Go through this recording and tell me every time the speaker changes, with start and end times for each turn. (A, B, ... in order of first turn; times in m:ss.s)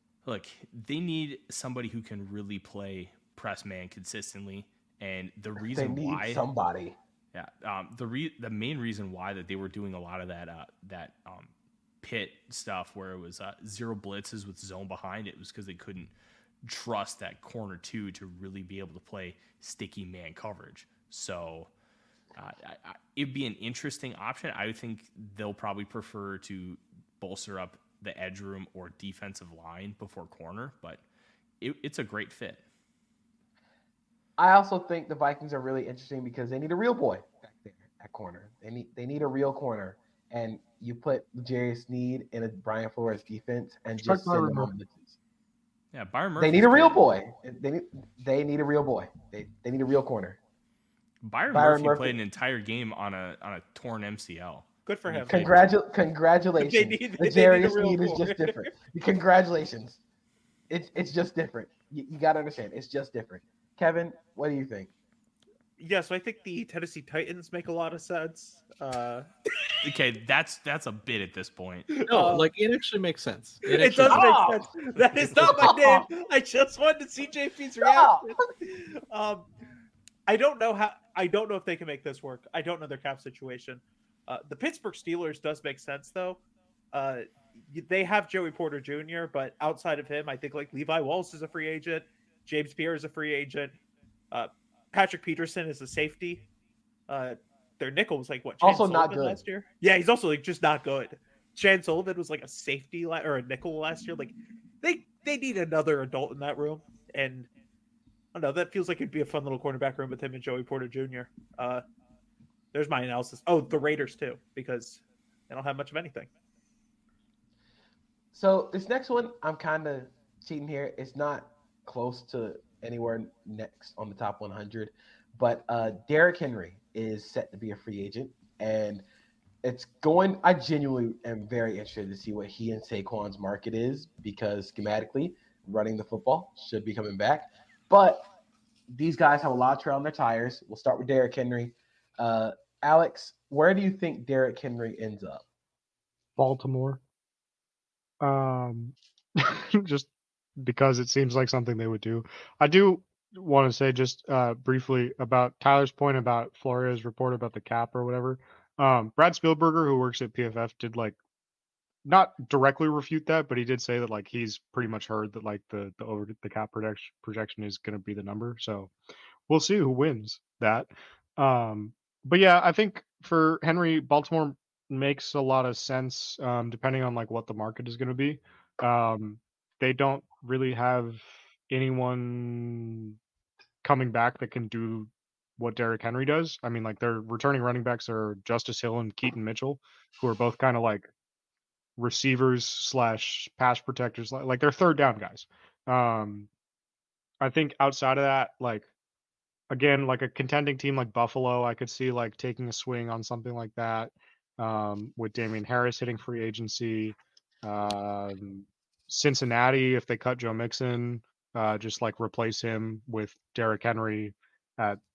0:00.2-0:06.4 A
0:05.6-0:07.0 B
0:07.3-0:21.7 A
0:22.4-0:31.0 A
0:31.6-0:32.6 A
0:34.4-0:45.2 B
0:44.0-0:44.7 C
0:45.9-0:47.0 A
0:46.4-0:50.4 B
0:51.2-0:55.7 A
0:51.5-0:52.2 B
0:54.9-0:55.5 D
0:55.3-1:00.0 B
0:56.6-0:58.7 D
1:00.7-1:04.9 B
1:05.8-1:09.7 D
1:09.8-1:12.0 A
1:11.9-1:12.5 D
1:12.0-1:14.4 E
1:13.7-1:19.5 D
1:14.1-1:14.7 B
1:15.2-1:16.1 B
1:17.8-1:18.3 B
1:20.3-1:26.4 D
1:26.9-1:33.8 D
1:34.3-1:36.4 D
1:37.1-1:47.5 D
1:38.6-1:39.4 B
1:48.3-1:51.8 D
1:52.7-1:56.3 D
1:58.3-2:09.0 B
2:09.6-2:18.3 B
2:18.9-2:25.4 B
2:26.4-2:27.0 C
2:28.2-2:41.2 C
2:42.0-2:48.9 C
2:49.5-3:03.2 C
3:03.8-3:11.1 C
3:12.0-3:16.5 C
3:17.4-3:18.9 C
3:19.7-3:35.0 C